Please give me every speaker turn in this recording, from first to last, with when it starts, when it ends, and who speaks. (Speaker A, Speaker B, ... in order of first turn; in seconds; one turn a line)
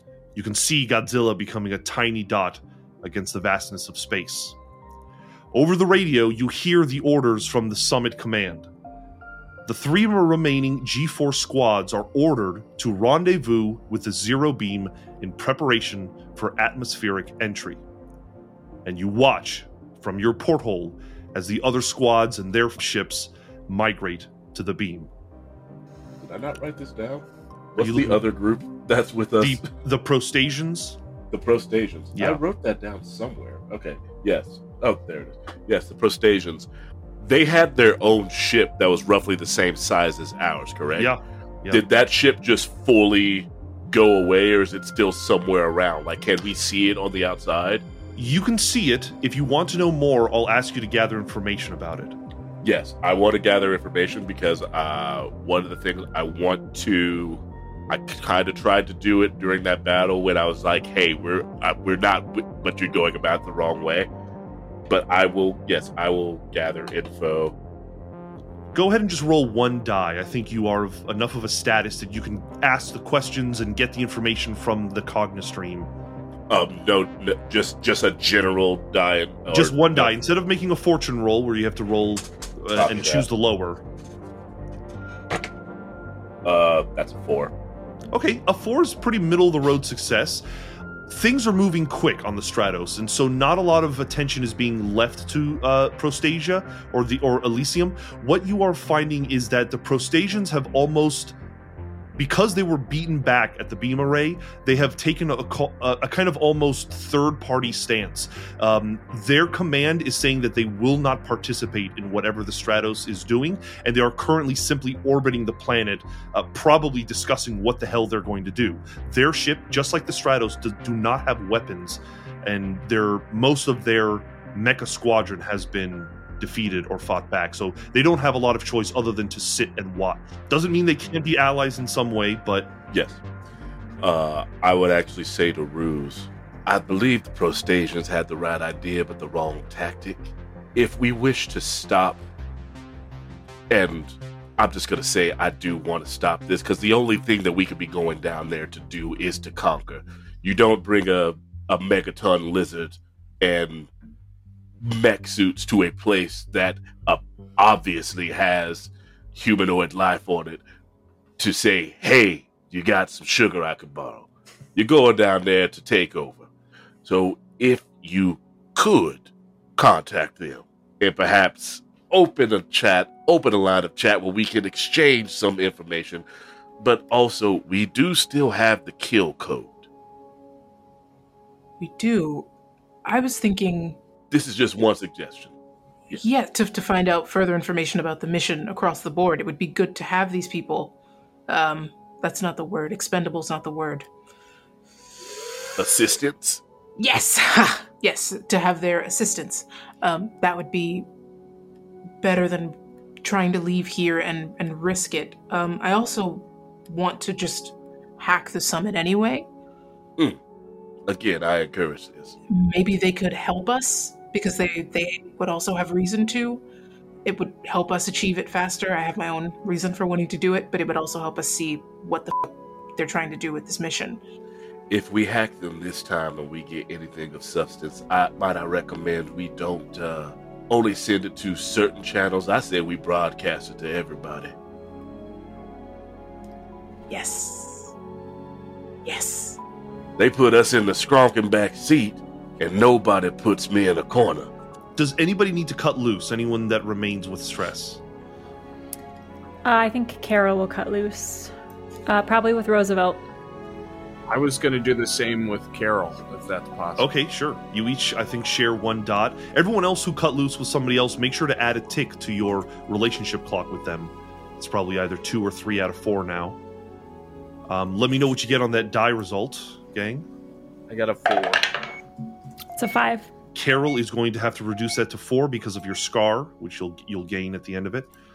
Speaker A: 0.3-4.5
Speaker A: 5.5-8.7
Speaker A: 9.7-17.8
Speaker A: 18.8-25.1
Speaker B: 26.2-29.6
Speaker A: 27.8-28.3
Speaker A: 29.4-31.0
Speaker B: 31.3-36.7
Speaker A: 32.1-32.4
Speaker B: 37.2-41.1
Speaker A: 41.0-41.8
Speaker B: 41.7-47.8
Speaker A: 48.1-52.1
Speaker B: 52.6-64.1
Speaker B: 64.9-67.5
Speaker A: 68.7-75.9
Speaker B: 76.5-80.1
Speaker A: 79.5-83.8
Speaker B: 82.7-83.3
Speaker B: 86.4-87.5
Speaker A: 88.1-90.4
Speaker A: 91.1-101.3
Speaker A: 102.2-132.7
Speaker B: 132.9-133.2
Speaker B: 134.0-142.2
Speaker B: 143.7-153.9
Speaker B: 154.8-160.6
Speaker B: 161.4-166.5
Speaker B: 167.0-176.2
Speaker B: 176.8-179.9
Speaker C: 181.8-182.5
Speaker C: 183.0-184.0
Speaker B: 184.3-185.5
Speaker C: 186.2-190.9
Speaker C: 191.5-194.1
Speaker B: 195.8-196.6
Speaker C: 197.0-201.1
Speaker C: 202.2-209.5
Speaker B: 211.1-212.4
Speaker C: 212.5-216.6
Speaker C: 217.2-224.2
Speaker B: 224.9-234.5
Speaker C: 237.1-237.9
Speaker C: 239.0-239.6
Speaker B: 240.2-244.5
Speaker A: 245.0-248.0
Speaker D: 249.6-251.5
Speaker D: 252.1-253.2
Speaker E: 254.3-257.1
Speaker A: 257.0-266.6
Speaker A: 267.7-270.2
Speaker E: 270.9-271.8
Speaker D: 272.8-273.3
Speaker A: 273.5-278.1